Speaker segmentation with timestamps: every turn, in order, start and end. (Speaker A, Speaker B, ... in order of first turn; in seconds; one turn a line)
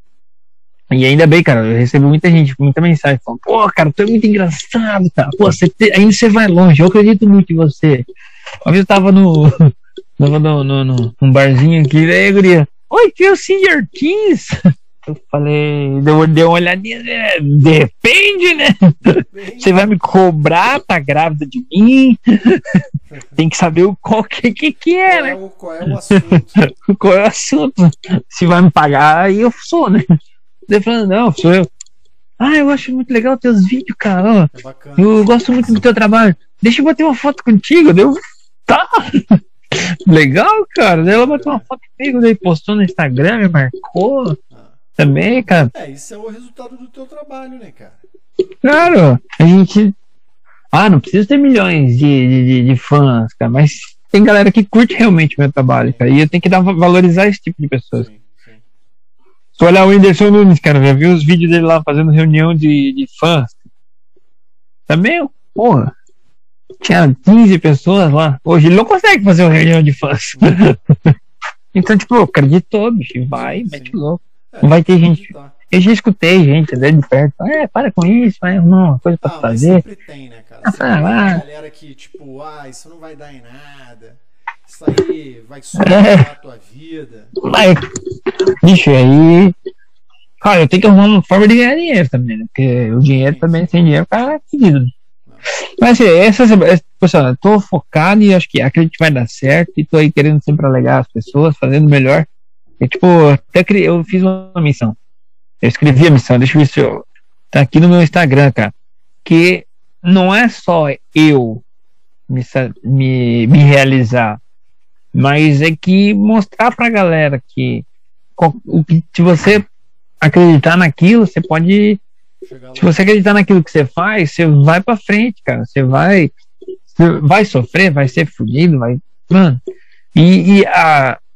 Speaker A: 0.9-8.1
Speaker A: 8.6-22.8
Speaker B: 19.1-20.1
Speaker A: 23.4-25.4
Speaker B: 25.1-26.6
Speaker A: 26.1-30.0
Speaker A: 30.7-31.7
Speaker A: 32.4-44.4
Speaker B: 34.5-35.9
Speaker B: 41.0-41.6
Speaker B: 44.5-44.8
Speaker A: 45.0-45.7
Speaker B: 45.6-48.0
Speaker A: 48.6-49.9
Speaker A: 50.7-58.1
Speaker B: 55.7-56.3
Speaker B: 57.9-58.6
Speaker A: 59.6-63.5
Speaker A: 64.9-65.9
Speaker A: 66.8-71.2
Speaker B: 70.3-70.7
Speaker A: 71.7-79.8
Speaker B: 73.3-74.0
Speaker B: 74.5-75.5
Speaker B: 79.2-87.4
Speaker A: 80.7-81.4
Speaker A: 85.8-86.2
Speaker A: 87.4-87.8
Speaker A: 88.6-89.5
Speaker A: 90.4-94.9
Speaker B: 93.1-93.7
Speaker A: 95.8-102.3
Speaker A: 102.8-105.0
Speaker A: 105.6-108.7
Speaker A: 109.2-111.6
Speaker A: 112.3-114.4
Speaker A: 115.1-117.8
Speaker A: 118.4-119.7
Speaker A: 120.2-122.0
Speaker B: 122.5-123.1
Speaker A: 122.8-126.3
Speaker A: 126.9-129.6
Speaker A: 130.1-131.2